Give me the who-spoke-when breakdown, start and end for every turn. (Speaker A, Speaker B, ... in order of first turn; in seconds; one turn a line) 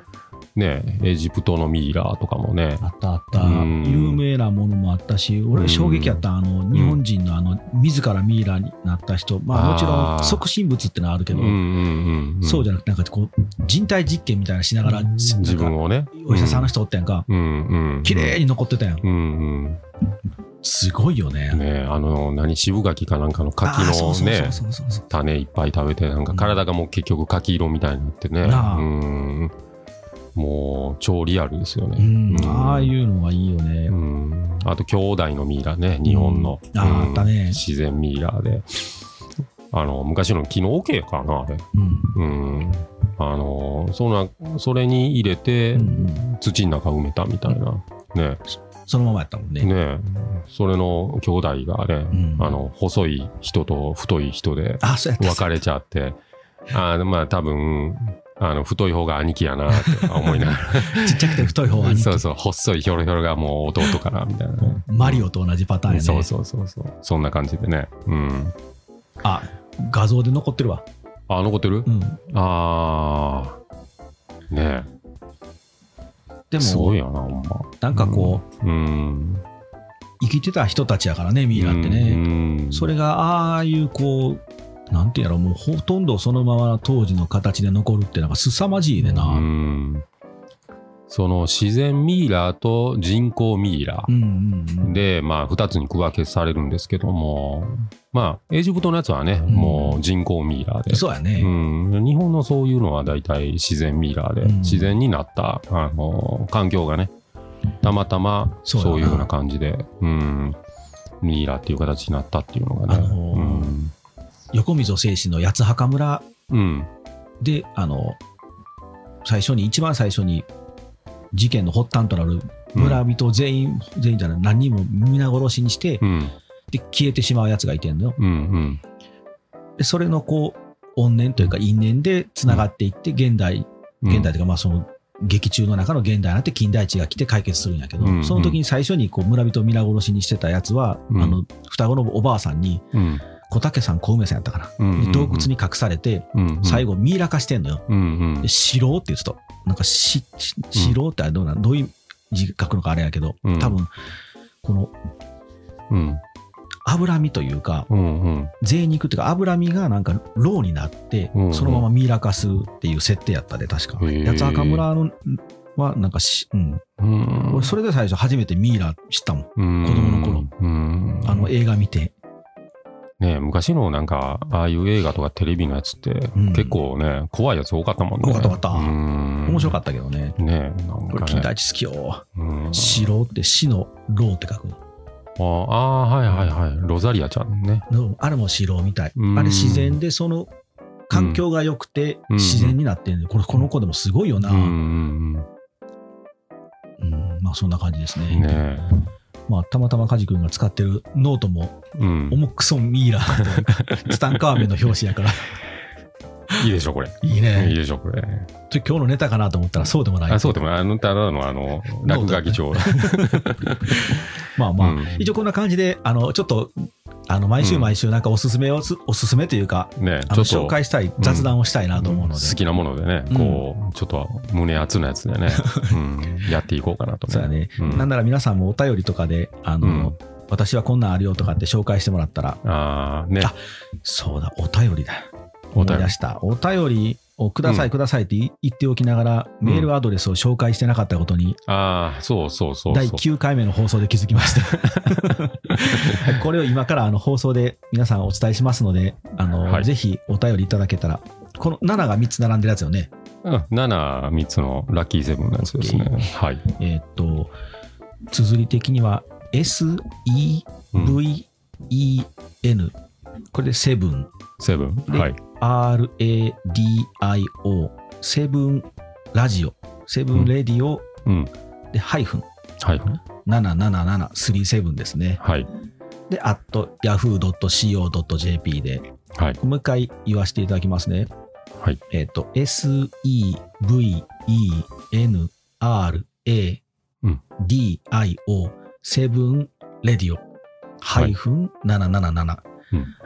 Speaker A: 0.5-2.8
Speaker B: 2.8-11.6
Speaker A: 3.3-4.2
Speaker A: 5.5-7.0
Speaker A: 9.5-10.4
Speaker A: 11.3-12.7
Speaker B: 12.4-17.3
Speaker A: 14.8-16.7
Speaker A: 17.3-18.4
Speaker B: 18.0-19.0
Speaker A: 19.0-19.8
Speaker B: 20.6-21.6
Speaker A: 21.5-29.5
Speaker B: 23.6-25.0
Speaker B: 26.3-26.6
Speaker B: 28.4-28.9
Speaker A: 30.3-32.9
Speaker B: 32.0-33.9
Speaker A: 33.9-39.0
Speaker B: 36.0-37.6
Speaker A: 39.7-48.4
Speaker B: 41.7-42.1
Speaker B: 45.7-46.2
Speaker B: 48.9-49.7
Speaker A: 49.6-56.2
Speaker B: 52.1-52.6
Speaker B: 54.8-55.6
Speaker A: 56.7-65.3
Speaker B: 59.7-62.2
Speaker B: 64.6-66.3
Speaker A: 65.9-68.5
Speaker B: 69.2-70.8
Speaker A: 71.3-73.6
Speaker B: 71.8-72.2
Speaker A: 74.5-74.9
Speaker B: 76.5-77.0
Speaker A: 76.6-79.4
Speaker B: 77.8-78.4
Speaker B: 80.2-89.5
Speaker A: 81.5-82.9
Speaker A: 89.0-90.0
Speaker A: 91.1-94.1
Speaker B: 94.1-95.0
Speaker A: 94.8-107.1
Speaker B: 99.5-100.0
Speaker B: 100.9-101.5
Speaker B: 104.4-105.0
Speaker A: 107.8-110.6
Speaker B: 108.6-109.3
Speaker A: 111.2-113.9
Speaker B: 112.9-113.8
Speaker B: 114.5-116.3
Speaker A: 116.5-116.9
Speaker B: 117.4-118.2
Speaker B: 119.2-120.5
Speaker B: 121.3-126.0
Speaker A: 122.7-123.0
Speaker A: 126.0-126.3
Speaker B: 126.7-128.2
Speaker A: 128.2-128.8
Speaker B: 129.8-142.9
Speaker A: 134.0-134.3
Speaker A: 138.0-138.6
Speaker A: 141.1-141.4
Speaker A: 142.9-143.2
Speaker B: 143.4-147.8
Speaker A: 144.8-145.5
Speaker A: 146.3-146.9
Speaker A: 147.9-148.5
Speaker B: 148.4-153.9
Speaker A: 153.4-153.8
Speaker B: 154.6-154.9
Speaker A: 155.9-156.2
Speaker B: 156.8-157.9
Speaker A: 157.9-158.5
Speaker B: 158.6-166.8
Speaker A: 161.3-161.9
Speaker A: 164.0-164.8
Speaker A: 167.0-167.7
Speaker B: 167.4-170.5
Speaker A: 169.6-171.5
Speaker B: 171.2-172.1
Speaker A: 173.2-179.8
Speaker B: 176.3-176.8
Speaker B: 178.2-180.4
Speaker A: 180.4-181.5
Speaker B: 181.1-184.8
Speaker A: 182.3-183.1
Speaker A: 185.4-187.9
Speaker B: 187.9-190.5
Speaker A: 189.2-190.0
Speaker B: 191.1-194.7
Speaker A: 191.1-191.4
Speaker A: 192.3-192.8
Speaker A: 194.4-195.5
Speaker B: 197.0-198.5
Speaker A: 198.3-198.9
Speaker B: 199.5-201.8
Speaker A: 201.9-202.4
Speaker B: 202.3-205.5
Speaker A: 203.3-204.7
Speaker A: 206.6-208.5
Speaker B: 207.2-207.8
Speaker B: 208.7-210.6
Speaker A: 210.3-214.2
Speaker B: 212.1-222.6
Speaker A: 214.8-215.3
Speaker A: 217.6-217.9
Speaker A: 220.0-228.1
Speaker B: 223.3-223.6
Speaker B: 225.6-225.9
Speaker B: 227.3-232.6
Speaker A: 229.8-230.1
Speaker A: 232.6-233.5
Speaker B: 233.4-241.6
Speaker A: 235.8-236.1
Speaker A: 237.6-237.9
Speaker A: 239.6-239.9
Speaker A: 241.7-243.2
Speaker B: 242.9-253.1
Speaker A: 244.4-246.4
Speaker A: 253.4-256.6
Speaker B: 255.6-257.5
Speaker B: 258.3-262.9
Speaker A: 260.9-261.2
Speaker B: 263.5-264.3
Speaker A: 264.6-265.4
Speaker B: 265.1-271.1
Speaker A: 271.2-271.5
Speaker B: 271.9-272.5
Speaker A: 272.8-273.2
Speaker B: 273.4-275.4
Speaker A: 275.4-275.7
Speaker B: 276.3-279.1
Speaker A: 279.3-279.6
Speaker B: 279.6-281.3
Speaker B: 282.1-286.8
Speaker B: 287.6-290.4
Speaker B: 291.0-292.6